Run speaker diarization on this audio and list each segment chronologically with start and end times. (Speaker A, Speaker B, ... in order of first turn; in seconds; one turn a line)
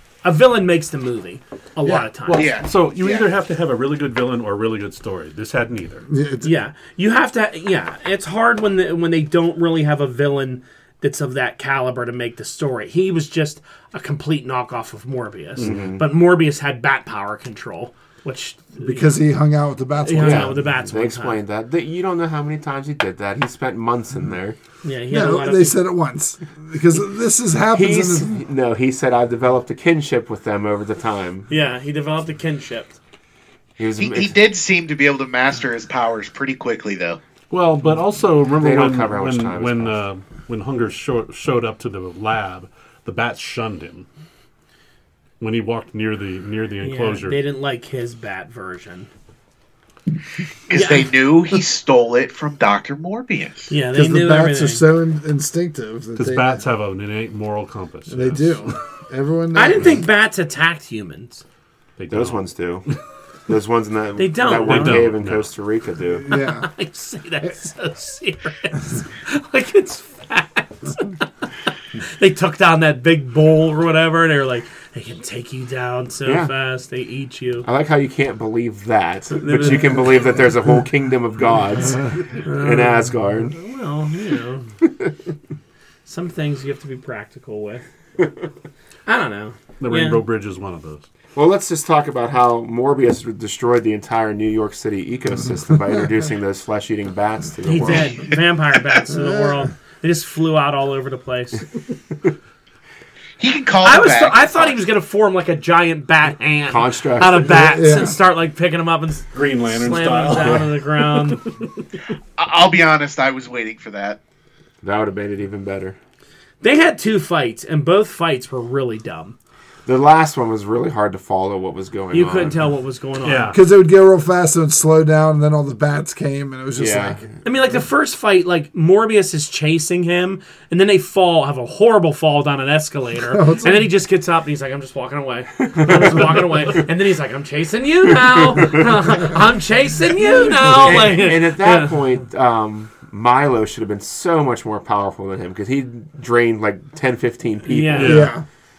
Speaker A: 0.2-2.5
Speaker B: 1.8-2.1
Speaker C: 2.3-6.1
Speaker D: 2.3-3.2
Speaker B: 6.1-6.5
Speaker A: 6.4-19.2
Speaker C: 15.6-15.9
Speaker E: 15.6-16.0
Speaker B: 18.8-20.6
Speaker A: 20.0-21.4
Speaker E: 20.2-24.6
Speaker A: 24.8-25.8
Speaker B: 25.1-28.4
Speaker E: 27.7-31.5
Speaker A: 31.5-33.0
Speaker E: 33.8-34.4
Speaker D: 34.0-37.2
Speaker C: 37.5-44.0
Speaker E: 38.6-40.0
Speaker C: 45.4-47.4
Speaker A: 46.8-49.1
Speaker D: 50.7-53.7
Speaker A: 50.7-51.1
Speaker A: 53.7-54.9
Speaker B: 53.9-56.6
Speaker C: 56.1-58.8
Speaker B: 58.1-60.0
Speaker A: 59.5-61.4
Speaker C: 62.0-62.9
Speaker E: 62.1-62.9
Speaker E: 63.5-66.3
Speaker A: 64.2-65.1
Speaker C: 64.5-65.5
Speaker B: 66.2-66.7
Speaker A: 66.3-77.7
Speaker E: 76.2-76.5
Speaker E: 77.6-83.5
Speaker A: 79.3-80.2
Speaker A: 82.4-84.7
Speaker E: 84.8-85.1
Speaker A: 86.0-87.8
Speaker A: 89.1-90.2
Speaker C: 89.8-91.1
Speaker E: 91.3-98.2
Speaker A: 97.6-101.7
Speaker B: 99.1-99.7
Speaker D: 103.4-104.8
Speaker A: 103.8-111.4
Speaker E: 106.7-107.5
Speaker B: 107.4-108.2
Speaker C: 109.3-111.5
Speaker D: 112.4-114.2
Speaker E: 114.8-116.0
Speaker A: 116.6-119.3
Speaker E: 119.8-122.6
Speaker A: 122.1-123.5
Speaker C: 123.2-123.6
Speaker B: 123.5-127.2
Speaker E: 126.8-127.3
Speaker A: 127.4-142.0
Speaker B: 133.3-133.9
Speaker E: 135.6-136.8
Speaker E: 138.5-138.8
Speaker B: 140.2-141.2
Speaker E: 140.7-148.2
Speaker A: 147.6-148.3
Speaker C: 147.9-148.3
Speaker B: 148.0-148.4